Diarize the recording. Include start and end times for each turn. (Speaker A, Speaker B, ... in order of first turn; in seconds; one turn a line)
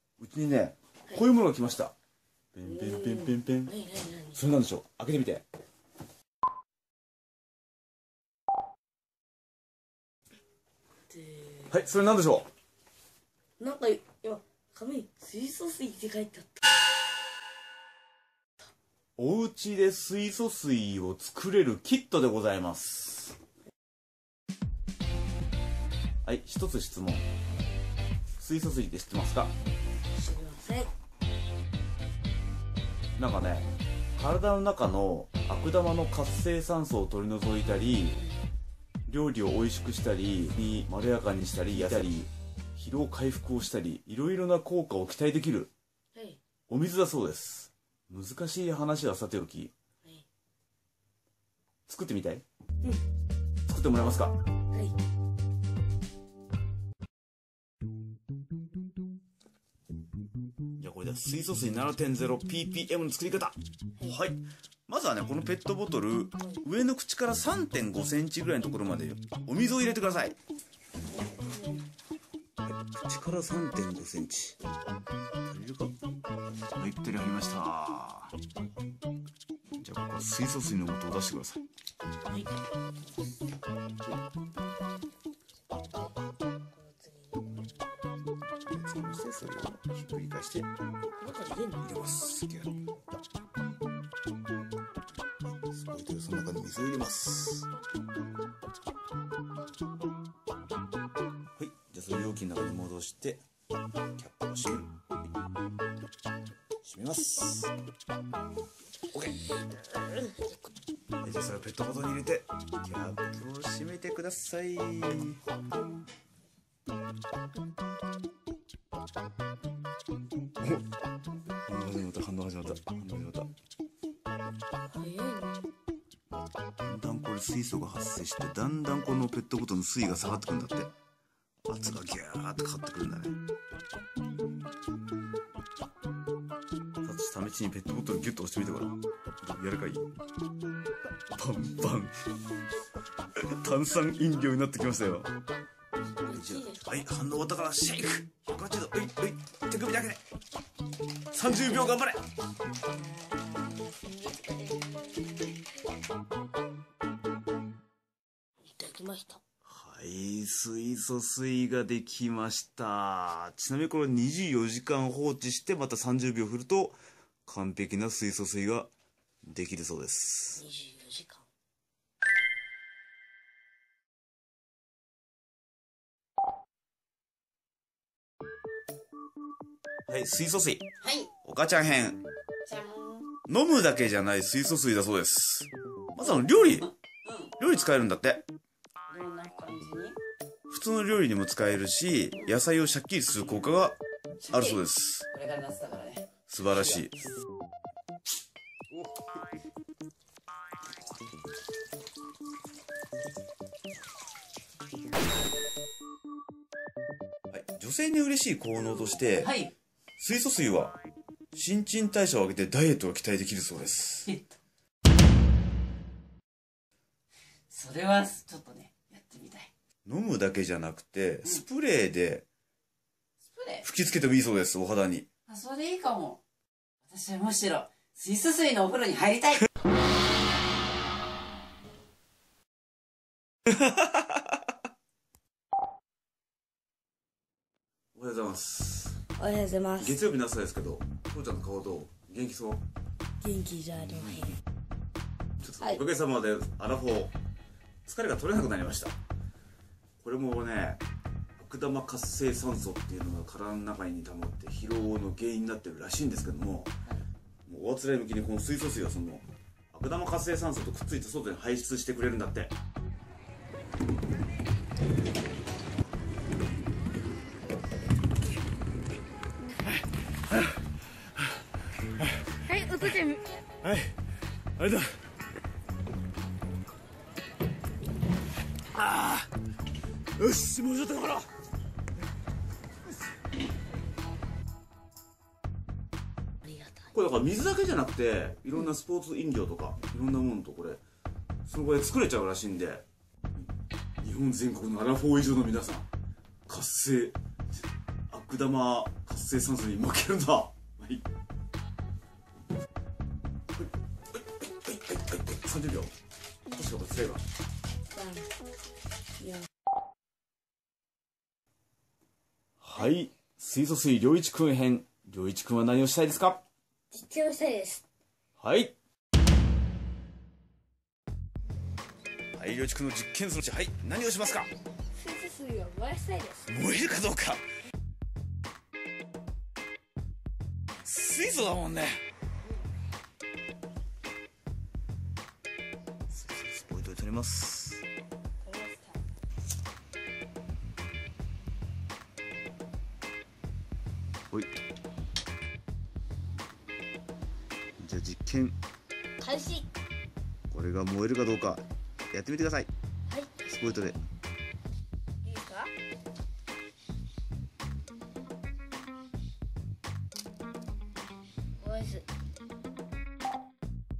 Speaker A: 0.2-1.9
Speaker A: 2.5-3.7
Speaker B: 2.6-4.4
Speaker A: 4.3-5.4
Speaker B: 11.1-11.7
Speaker A: 11.7-12.5
Speaker B: 13.6-16.6
Speaker A: 19.2-23.4
Speaker A: 26.2-27.2
Speaker A: 28.4-29.5
Speaker B: 30.1-30.9
Speaker A: 33.2-38.2
Speaker A: 39.1-45.7
Speaker A: 46.7-49.7
Speaker A: 51.9-52.4
Speaker A: 53.6-54.4
Speaker A: 60.8-70.3
Speaker B: 71.3-71.8
Speaker A: 72.6-74.6
Speaker A: 75.5-76.0
Speaker A: 76.8-78.3
Speaker A: 79.8-81.6
Speaker B: 82.3-82.7
Speaker B: 86.7-87.7
Speaker A: 88.7-90.7
Speaker B: 91.2-91.8
Speaker A: 91.8-92.8
Speaker A: 95.7-97.7
Speaker A: 101.5-103.4
Speaker A: 104.2-104.9
Speaker A: 106.8-107.7
Speaker A: 109.1-109.4
Speaker B: 109.9-110.6
Speaker A: 111.2-115.4
Speaker A: 120.6-120.8
Speaker A: 121.7-123.5
Speaker B: 124.9-125.6
Speaker A: 126.8-130.9
Speaker A: 131.6-133.4
Speaker A: 137.0-140.1
Speaker A: 141.3-142.1
Speaker A: 143.3-145.3
Speaker B: 146.2-146.9
Speaker A: 146.3-150.2
Speaker A: 151.3-152.2
Speaker B: 152.9-154.8
Speaker B: 158.6-159.4
Speaker A: 159.7-168.9
Speaker A: 169.4-170.6
Speaker B: 170.6-171.4
Speaker A: 180.1-180.8
Speaker C: 181.0-181.3
Speaker A: 181.4-182.2
Speaker C: 182.7-183.3
Speaker A: 183.5-186.9
Speaker C: 186.5-187.5
Speaker A: 187.6-188.4
Speaker C: 189.1-190.2
Speaker A: 190.7-195.3
Speaker C: 194.4-197.1
Speaker A: 196.5-197.1
Speaker A: 207.5-209.5
Speaker C: 209.4-209.7
Speaker A: 210.2-210.9
Speaker A: 211.5-214.3
Speaker C: 217.7-219.7
Speaker A: 220.1-222.4
Speaker C: 223.5-223.8
Speaker A: 223.8-225.3
Speaker C: 225.5-226.4
Speaker C: 227.0-229.7
Speaker A: 238.1-239.2
Speaker B: 239.4-240.2
Speaker A: 240.0-242.8
Speaker B: 243.4-244.6
Speaker A: 244.2-244.5
Speaker A: 245.6-247.3
Speaker A: 248.1-249.2
Speaker A: 250.2-251.0
Speaker A: 251.6-256.9
Speaker A: 257.7-262.7
Speaker A: 272.4-272.9
Speaker B: 272.6-273.4
Speaker A: 273.8-274.1
Speaker A: 274.8-275.2
Speaker A: 278.9-279.5
Speaker A: 280.4-281.5
Speaker A: 287.1-291.0
Speaker A: 291.6-293.0
Speaker A: 294.2-296.1
Speaker A: 296.7-301.2
Speaker A: 303.7-306.1
Speaker A: 306.7-307.4
Speaker B: 308.1-308.5
Speaker B: 309.4-309.7
Speaker A: 312.8-316.6
Speaker B: 317.1-318.0
Speaker A: 318.6-318.9
Speaker A: 322.5-324.7
Speaker B: 325.1-326.6
Speaker A: 326.6-327.6
Speaker A: 331.0-332.2
Speaker A: 336.3-338.0
Speaker B: 338.6-339.2
Speaker A: 348.0-348.8
Speaker B: 349.4-349.9
Speaker A: 350.7-352.9
Speaker B: 353.3-353.7
Speaker A: 353.6-354.2
Speaker B: 355.4-355.9
Speaker B: 361.8-362.3